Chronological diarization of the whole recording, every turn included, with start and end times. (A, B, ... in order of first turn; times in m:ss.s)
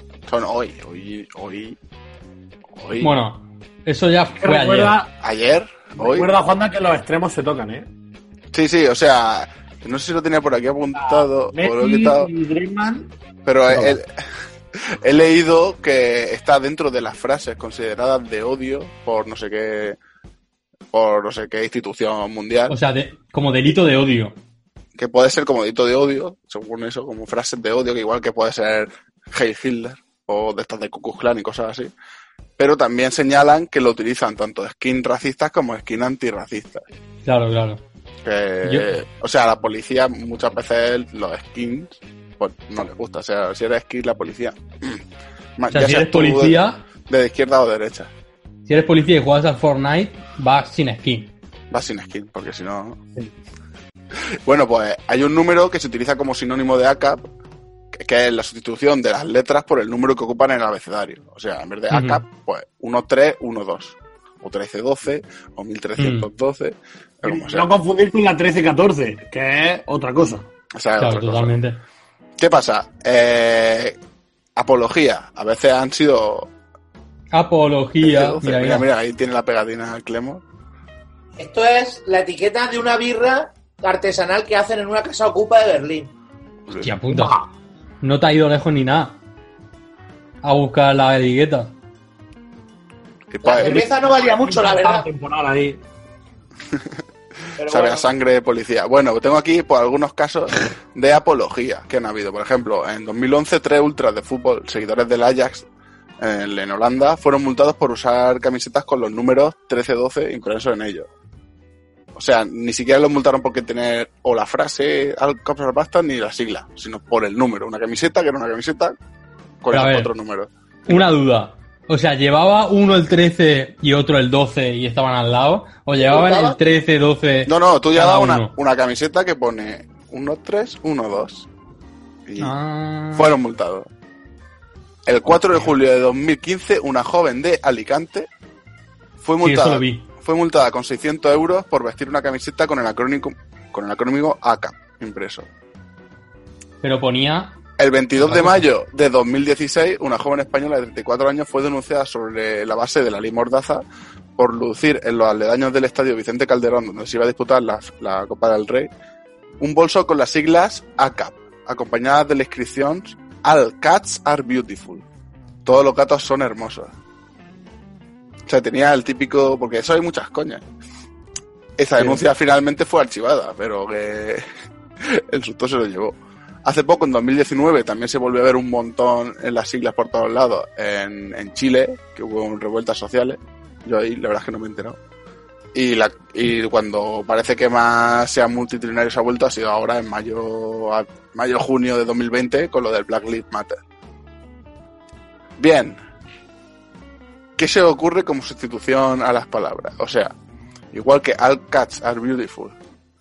0:00.3-0:01.8 A
0:02.8-0:03.1 A
0:03.0-0:05.0 B
0:04.4-0:05.1 C
0:05.2-0:06.3 A
0:06.0-0:07.9 C
0:08.5-0:12.3 A
0:11.0-0:13.1 C
0:13.4-0:14.1 A
0:13.7-0:14.0 C
0:14.8-0:20.0 A
0:20.9-0:22.8 A
0:22.7-0:24.4 B
0:25.0-0:31.9 A
0:32.6-0:36.8 A
0:37.2-0:37.8 B
0:38.2-0:45.0 A
0:38.6-0:38.9 B
0:45.6-0:48.1 A
0:45.7-0:46.8 B
0:48.6-0:51.3 B
0:51.7-0:53.0 A
0:54.4-0:57.2 A
0:57.9-1:07.7 A
1:01.9-1:02.2 B
1:06.0-1:06.3 B
1:07.2-1:10.5 C
1:10.7-1:11.5 A
1:11.0-1:11.8 B
1:12.4-1:14.0 A
1:14.6-1:16.5 A
1:17.3-1:18.9 B
1:18.0-1:20.4 A
1:21.4-1:26.1 D
1:26.8-1:27.4 B
1:27.1-1:27.5 C
1:28.0-1:29.2 B
1:30.4-1:31.7 B
1:33.3-1:33.9 A
1:33.4-1:35.1 D
1:33.6-1:35.8 C
1:37.6-1:38.1 D
1:37.6-1:45.6 A
1:46.2-1:51.1 A
1:52.2-1:59.0 A
1:59.6-2:01.1 A
1:59.7-2:00.1 B
2:00.9-2:08.5 B
2:06.0-2:06.6 D
2:07.5-2:11.5 A
2:12.2-2:12.5 A
2:12.4-2:13.4 B
2:13.1-2:13.9 A
2:15.1-2:18.3 A
2:19.2-2:25.5 A
2:19.4-2:20.0 B
2:26.8-2:27.6 B
2:27.8-2:33.8 A
2:28.2-2:28.6 B
2:34.4-2:38.9 A
2:39.6-2:45.0 A
2:45.6-2:46.9 A
2:48.4-2:50.6 A
2:51.8-2:54.4 A
2:55.0-3:05.0 A
3:05.7-3:13.8 A
3:15.6-3:16.0 A
3:17.6-3:20.3 A
3:20.9-3:22.8 A